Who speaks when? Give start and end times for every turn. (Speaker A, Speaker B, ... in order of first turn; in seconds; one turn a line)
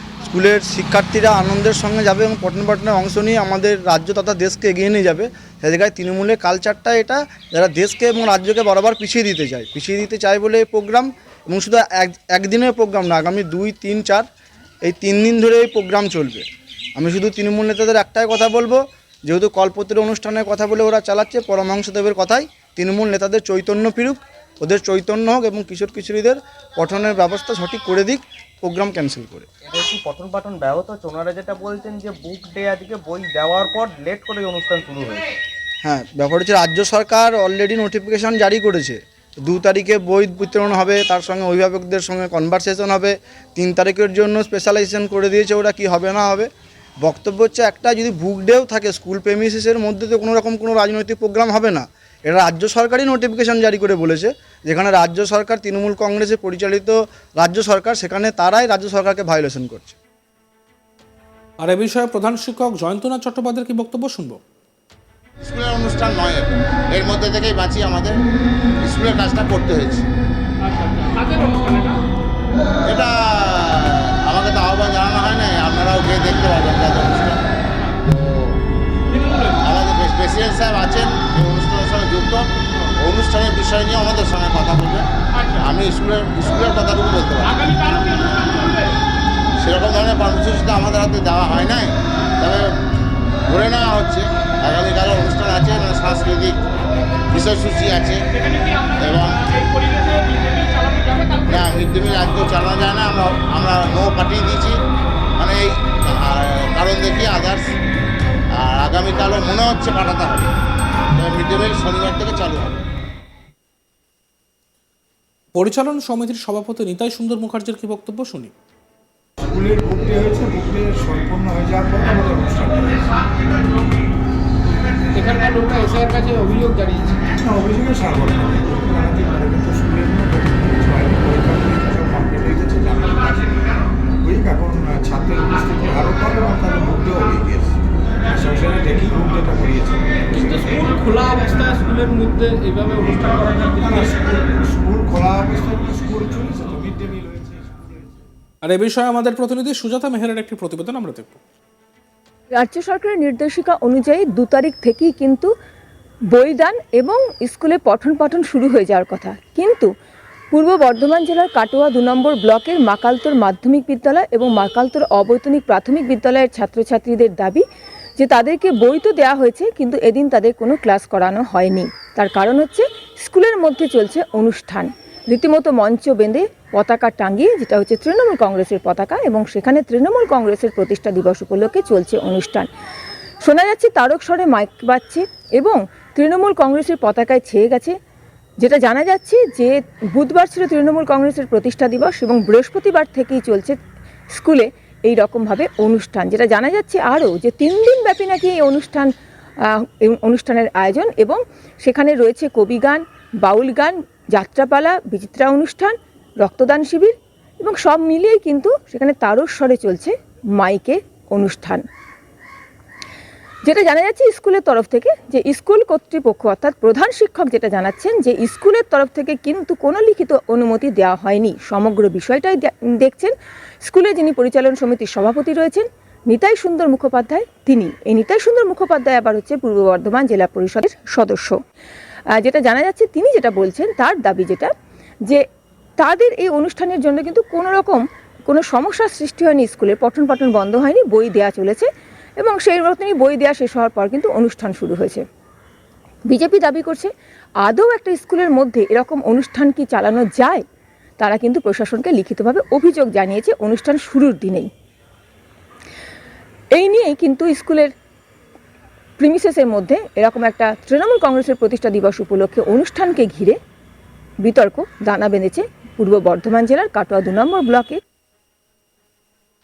Speaker A: 0.2-14.2
Speaker A: 14.8-29.5
Speaker B: 29.6-35.3
Speaker A: 35.8-46.5
Speaker A: 47.0-60.0
Speaker C: 61.6-64.4
Speaker D: 65.4-68.1
Speaker D: 68.8-70.1
Speaker E: 70.6-72.0
Speaker D: 72.8-77.4
Speaker D: 78.0-78.6
Speaker E: 79.1-79.6
Speaker D: 79.6-82.4
Speaker D: 83.0-85.0
Speaker E: 85.3-85.7
Speaker D: 85.6-88.3
Speaker E: 87.4-88.9
Speaker D: 89.6-92.7
Speaker D: 93.5-96.6
Speaker D: 97.3-98.2
Speaker E: 98.5-99.0
Speaker D: 99.0-99.5
Speaker E: 99.6-101.6
Speaker D: 101.5-104.8
Speaker D: 105.4-107.7
Speaker D: 108.6-110.5
Speaker D: 111.2-112.8
Speaker C: 115.5-118.5
Speaker F: 119.4-123.1
Speaker E: 125.1-127.2
Speaker F: 127.3-133.5
Speaker F: 134.2-137.8
Speaker F: 138.3-140.2
Speaker E: 140.3-144.1
Speaker F: 143.7-148.0
Speaker C: 148.6-151.4
Speaker G: 152.6-155.5
Speaker G: 156.3-159.9
Speaker G: 160.5-167.6
Speaker G: 168.2-182.7
Speaker G: 183.4-187.9
Speaker G: 188.6-193.7
Speaker G: 194.3-199.1
Speaker G: 200.0-211.8
Speaker G: 213.6-223.3
Speaker G: 223.8-231.5
Speaker G: 232.4-234.7
Speaker G: 236.0-241.9
Speaker G: 242.4-245.2
Speaker G: 246.3-247.1
Speaker G: 247.6-250.6
Speaker G: 251.2-254.7
Speaker G: 256.7-257.9
Speaker G: 259.2-263.6
Speaker G: 264.4-268.0